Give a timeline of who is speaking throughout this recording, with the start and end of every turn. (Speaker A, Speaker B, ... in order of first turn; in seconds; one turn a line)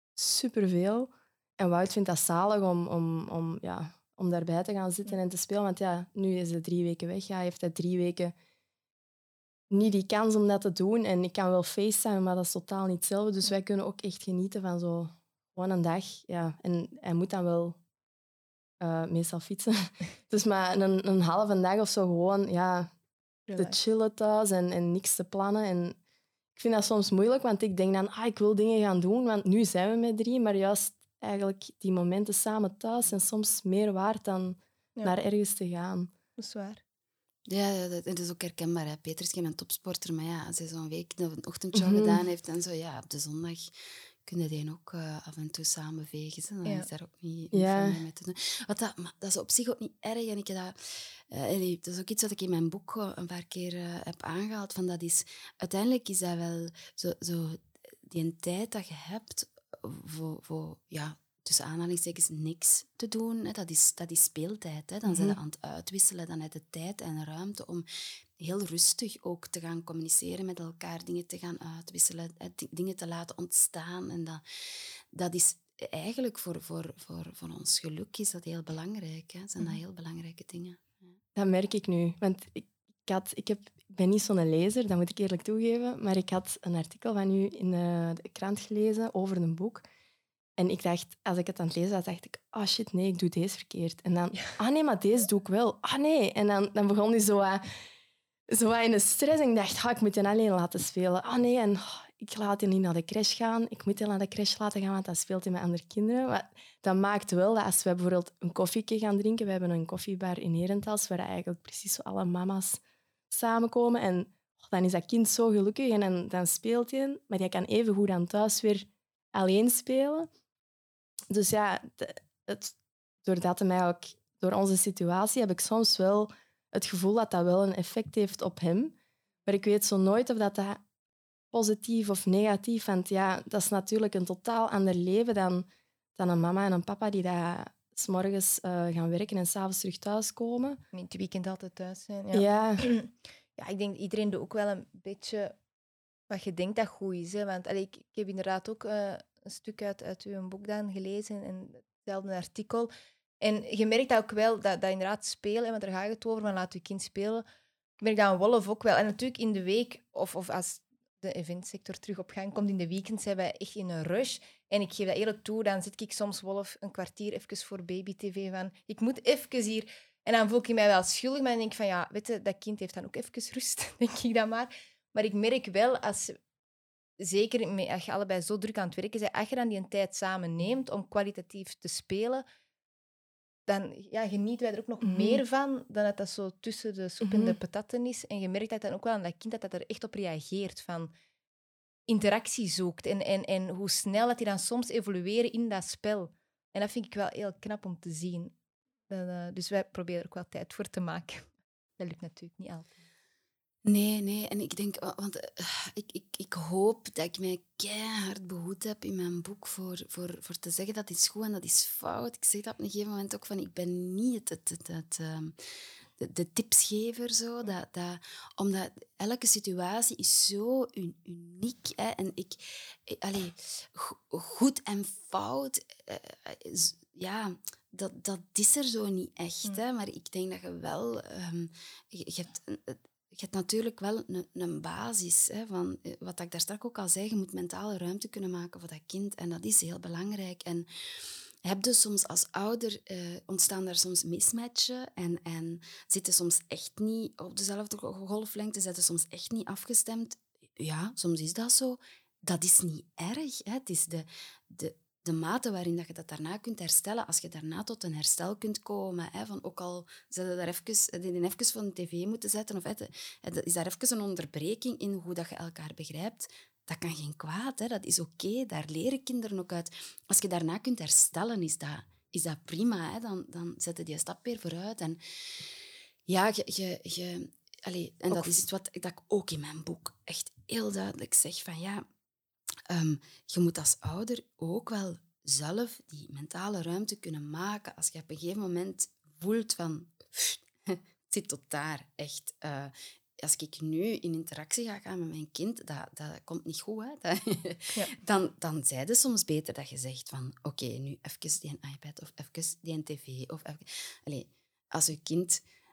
Speaker A: 0.1-8.3
Speaker A: 9.7-17.8
Speaker A: 18.8-22.9
Speaker B: 23.5-23.7
Speaker A: 23.5-26.0
Speaker A: 26.6-36.1
Speaker B: 36.4-36.8
Speaker C: 37.5-43.7
Speaker A: 41.7-42.2
Speaker C: 44.2-67.8
Speaker A: 47.5-48.0
Speaker A: 65.0-65.4
Speaker C: 68.4-81.1
Speaker A: 81.3-89.8
Speaker A: 90.6-97.6
Speaker A: 98.5-120.3
Speaker A: 121.3-130.8
Speaker A: 131.5-140.8
Speaker B: 140.9-145.5
Speaker A: 142.3-142.9
Speaker B: 146.3-152.9
Speaker B: 153.4-157.4
Speaker B: 158.0-176.4
Speaker B: 177.2-182.4
Speaker B: 183.7-191.1
Speaker A: 185.0-185.4
Speaker A: 187.2-187.6
Speaker B: 192.1-198.5
Speaker B: 199.1-203.0
Speaker C: 203.8-215.5
Speaker C: 216.2-240.9
Speaker C: 241.6-275.8
Speaker C: 276.3-282.1
Speaker C: 282.9-305.6